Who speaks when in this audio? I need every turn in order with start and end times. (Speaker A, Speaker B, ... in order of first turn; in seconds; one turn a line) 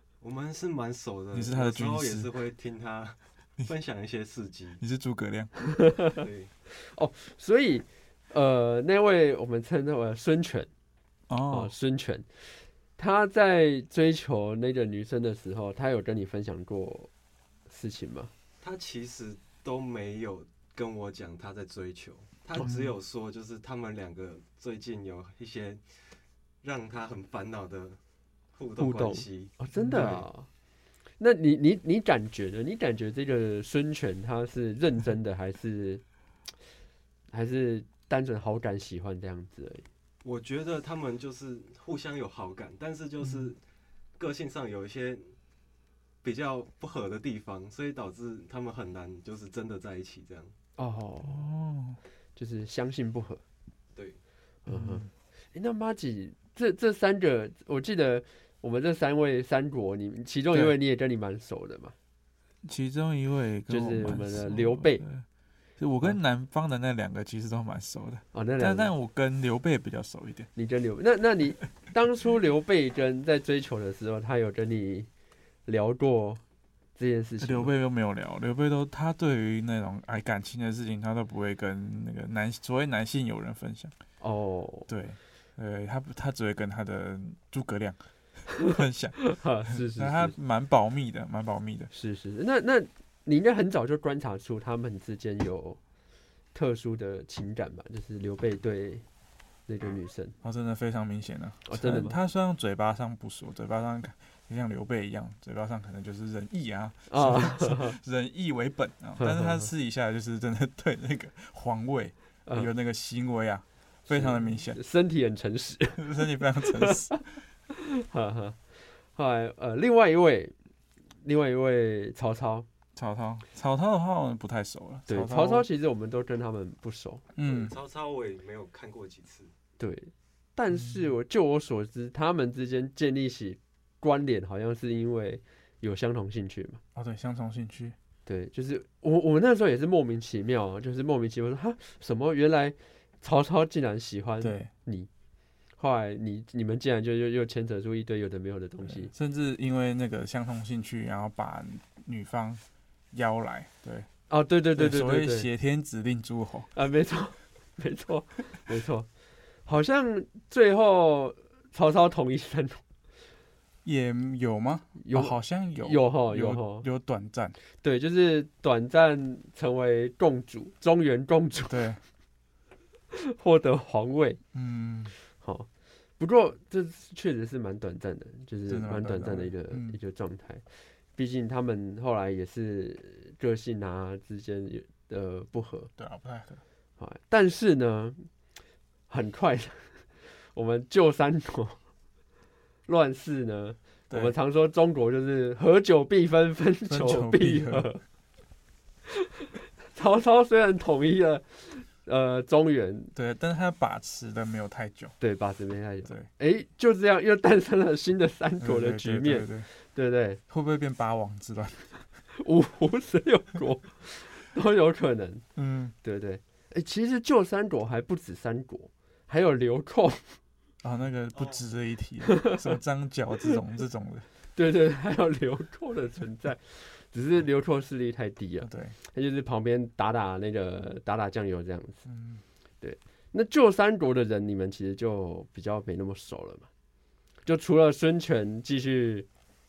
Speaker A: 0.2-4.8
Speaker B: 1.3-2.3
Speaker B: 4.8-5.5
Speaker C: 5.6-10.7
Speaker A: 6.2-6.5
Speaker B: 11.3-11.7
Speaker C: 11.5-12.3
Speaker C: 13.0-17.1
Speaker C: 17.7-18.3
Speaker A: 18.6-25.8
Speaker B: 22.6-22.9
Speaker A: 26.6-28.0
Speaker A: 28.5-30.1
Speaker C: 28.8-30.5
Speaker B: 29.7-30.2
Speaker C: 31.2-36.0
Speaker C: 37.3-39.8
Speaker A: 40.2-43.6
Speaker A: 44.2-45.3
Speaker A: 46.2-50.5
Speaker C: 50.8-51.5
Speaker B: 51.2-52.0
Speaker C: 52.4-53.4
Speaker C: 54.6-61.9
Speaker B: 54.7-55.1
Speaker B: 62.6-65.2
Speaker C: 63.7-65.0
Speaker B: 65.8-70.5
Speaker C: 68.3-68.9
Speaker C: 70.5-75.1
Speaker C: 75.7-76.4
Speaker C: 77.0-77.7
Speaker B: 77.4-83.9
Speaker C: 84.2-84.9
Speaker B: 84.9-91.9
Speaker C: 89.2-90.3
Speaker C: 91.9-95.8
Speaker C: 96.5-99.0
Speaker C: 99.7-100.3
Speaker B: 100.4-114.8
Speaker C: 101.7-102.2
Speaker C: 107.1-108.0
Speaker C: 109.2-109.7
Speaker C: 114.1-116.0
Speaker B: 115.9-117.2
Speaker C: 116.6-118.6
Speaker C: 119.1-120.5
Speaker C: 121.2-122.7
Speaker B: 123.0-125.6
Speaker C: 125.1-127.2
Speaker B: 127.3-127.7
Speaker A: 127.4-129.5
Speaker C: 129.8-136.8
Speaker B: 130.7-131.1
Speaker B: 136.9-137.9
Speaker C: 138.2-145.1
Speaker B: 144.4-144.7
Speaker C: 145.8-149.1
Speaker B: 148.9-154.1
Speaker C: 154.3-155.5
Speaker B: 154.7-156.7
Speaker C: 156.7-159.1
Speaker C: 159.7-162.8
Speaker B: 163.8-167.6
Speaker C: 165.0-166.9
Speaker C: 167.8-171.9
Speaker B: 171.7-172.0
Speaker C: 173.1-174.4
Speaker B: 174.5-175.1
Speaker C: 175.4-180.6
Speaker B: 178.7-180.0
Speaker C: 181.1-185.9
Speaker B: 186.0-186.6
Speaker C: 187.0-188.3
Speaker C: 189.1-191.8
Speaker C: 192.9-198.0
Speaker B: 196.9-197.9
Speaker C: 199.9-203.1
Speaker B: 203.1-205.1
Speaker C: 205.2-210.4
Speaker B: 208.6-209.7
Speaker B: 210.5-211.9
Speaker C: 212.3-215.4
Speaker B: 215.6-215.9
Speaker C: 216.0-220.4
Speaker B: 220.8-224.3
Speaker A: 221.3-221.6
Speaker C: 222.3-222.6
Speaker C: 224.5-232.0
Speaker B: 228.6-228.9
Speaker B: 232.1-232.4
Speaker C: 232.8-236.7
Speaker C: 237.4-239.3